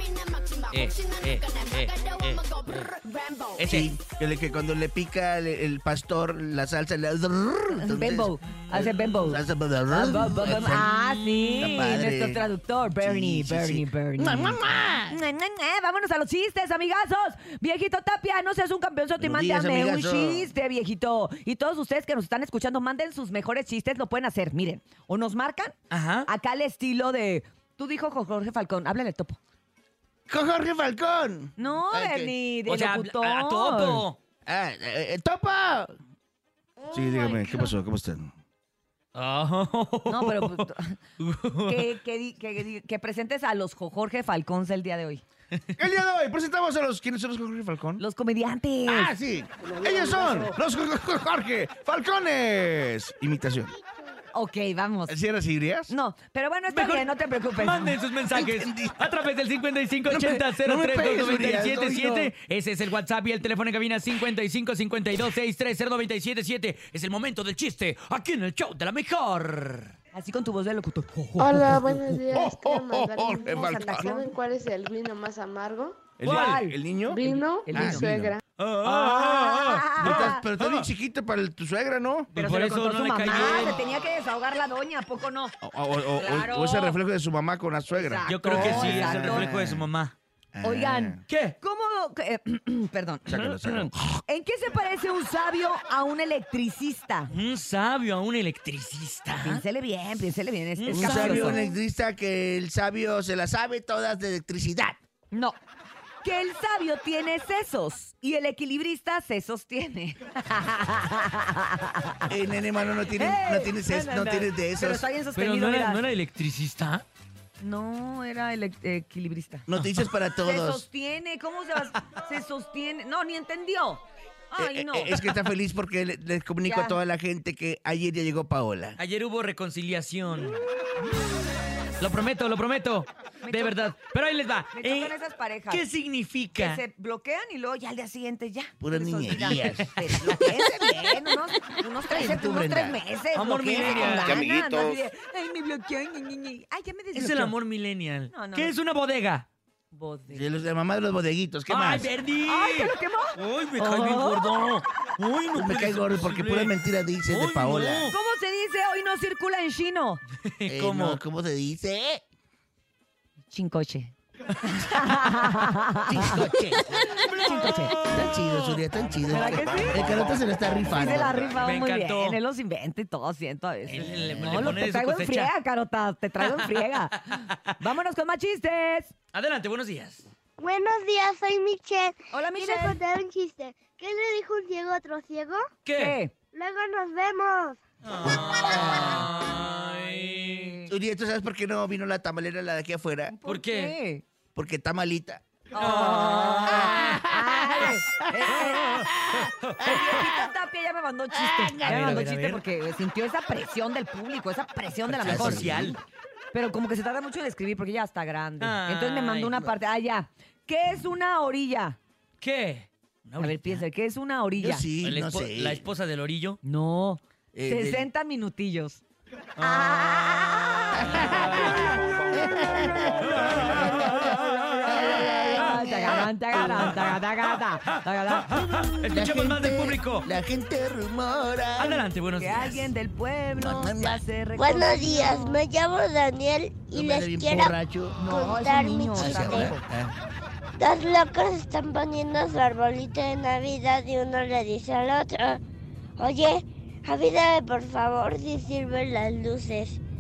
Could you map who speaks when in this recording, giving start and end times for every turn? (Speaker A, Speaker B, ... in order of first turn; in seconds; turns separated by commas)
Speaker A: 0.7-2.9, Speaker A: 3.6-4.0, Speaker B: 3.6-10.9, Speaker C: 7.7-29.4, Speaker A: 8.5-9.3, Speaker A: 10.4-11.8, Speaker B: 11.6-15.2, Speaker B: 19.2-20.5, Speaker A: 25.9-26.3, Speaker B: 30.3-32.4, Speaker C: 31.6-34.0, Speaker A: 32.7-34.2, Speaker B: 34.5-36.0, Speaker B: 36.9-38.3, Speaker D: 37.0-37.5, Speaker A: 39.1-40.7, Speaker C: 40.1-41.0, Speaker A: 41.2-42.0, Speaker C: 41.7-45.2, Speaker B: 45.8-48.0, Speaker C: 48.0-49.1, Speaker B: 48.9-53.7, Speaker C: 50.2-50.4, Speaker C: 54.3-55.2, Speaker B: 55.1-55.9, Speaker C: 55.9-58.0, Speaker A: 56.7-70.0, Speaker B: 58.3-59.2, Speaker B: 60.1-62.3, Speaker C: 70.1-72.2, Speaker D: 71.4-76.1, Speaker B: 72.3-74.3, Speaker C: 73.5-74.3, Speaker B: 76.2-78.4, Speaker C: 76.2-78.1, Speaker A: 76.2-76.7, Speaker D: 77.1-78.4, Speaker A: 78.6-80.7, Speaker C: 78.8-80.5, Speaker B: 80.0-82.3, Speaker A: 82.3-83.8, Speaker C: 82.3-85.5, Speaker B: 85.6-89.9, Speaker C: 86.1-87.0, Speaker C: 87.9-89.5, Speaker A: 88.3-90.2, Speaker B: 90.5-91.2, Speaker C: 90.6-93.3, Speaker A: 91.3-91.6, Speaker B: 93.3-93.9, Speaker A: 93.3-94.2, Speaker C: 94.3-97.3, Speaker A: 97.3-99.6, Speaker C: 99.4-101.6, Speaker A: 100.8-101.6, Speaker B: 100.9-105.0, Speaker C: 105.3-105.6, Speaker C: 106.2-112.3, Speaker B: 112.3-115.1, Speaker C: 113.1-116.0, Speaker A: 115.3-117.0, Speaker C: 117.6-119.7, Speaker B: 119.7-120.8, Speaker A: 119.8-120.0, Speaker C: 120.4-125.2, Speaker B: 124.6-129.0, Speaker C: 126.6-127.0, Speaker A: 129.0-130.6, Speaker A: 132.0-135.2, Speaker C: 133.4-134.0, Speaker C: 134.7-135.9, Speaker A: 135.7-136.8, Speaker C: 136.6-147.6, Speaker B: 138.8-141.0, Speaker B: 142.1-143.0, Speaker A: 143.3-144.5, Speaker A: 147.1-149.5, Speaker C: 148.3-148.7, Speaker C: 149.9-150.5, Speaker B: 150.3-152.1, Speaker A: 151.7-158.2, Speaker C: 152.4-154.5, Speaker B: 155.5-158.1, Speaker C: 158.1-160.2, Speaker A: 160.4-161.2, Speaker B: 160.7-162.2, Speaker C: 163.5-166.4, Speaker B: 166.1-167.1, Speaker A: 167.0-168.8, Speaker C: 167.2-167.9, Speaker B: 168.1-171.5, Speaker C: 169.3-170.3, Speaker A: 169.4-170.1, Speaker C: 170.9-179.1, Speaker A: 171.6-172.4, Speaker A: 173.8-175.5, Speaker B: 174.1-174.8, Speaker A: 176.4-177.8, Speaker A: 179.3-180.3, Speaker E: 180.6-185.7, Speaker C: 182.3-183.0, Speaker A: 185.8-186.2, Speaker C: 185.9-186.3, Speaker E: 186.5-187.8, Speaker A: 188.0-190.8, Speaker B: 188.6-189.2, Speaker C: 190.5-190.9, Speaker B: 190.9-193.3, Speaker C: 193.3-194.2, Speaker A: 193.5-194.0, Speaker B: 194.6-195.4, Speaker C: 195.7-199.1, Speaker A: 195.8-198.0, Speaker B: 196.7-197.2, Speaker B: 197.8-200.5, Speaker A: 198.7-200.1, Speaker C: 199.8-205.9, Speaker B: 201.3-202.2, Speaker A: 201.8-202.6, Speaker A: 205.1-206.0, Speaker B: 205.2-206.0, Speaker C: 206.5-212.0, Speaker A: 208.6-209.6, Speaker A: 212.4-213.8, Speaker C: 213.4-214.8, Speaker B: 214.6-215.8, Speaker A: 215.0-216.6, Speaker C: 216.6-219.0, Speaker B: 217.5-218.1, Speaker A: 219.6-222.0, Speaker C: 219.6-222.0, Speaker B: 221.0-226.6, Speaker A: 223.3-225.1, Speaker C: 224.8-228.7, Speaker A: 226.6-230.3, Speaker B: 228.6-232.1, Speaker A: 231.8-232.9, Speaker C: 232.4-235.6, Speaker B: 233.5-234.2, Speaker E: 234.6-239.7, Speaker B: 236.9-238.2, Speaker C: 238.2-239.9, Speaker B: 239.2-240.1, Speaker E: 240.8-245.6, Speaker E: 246.2-250.0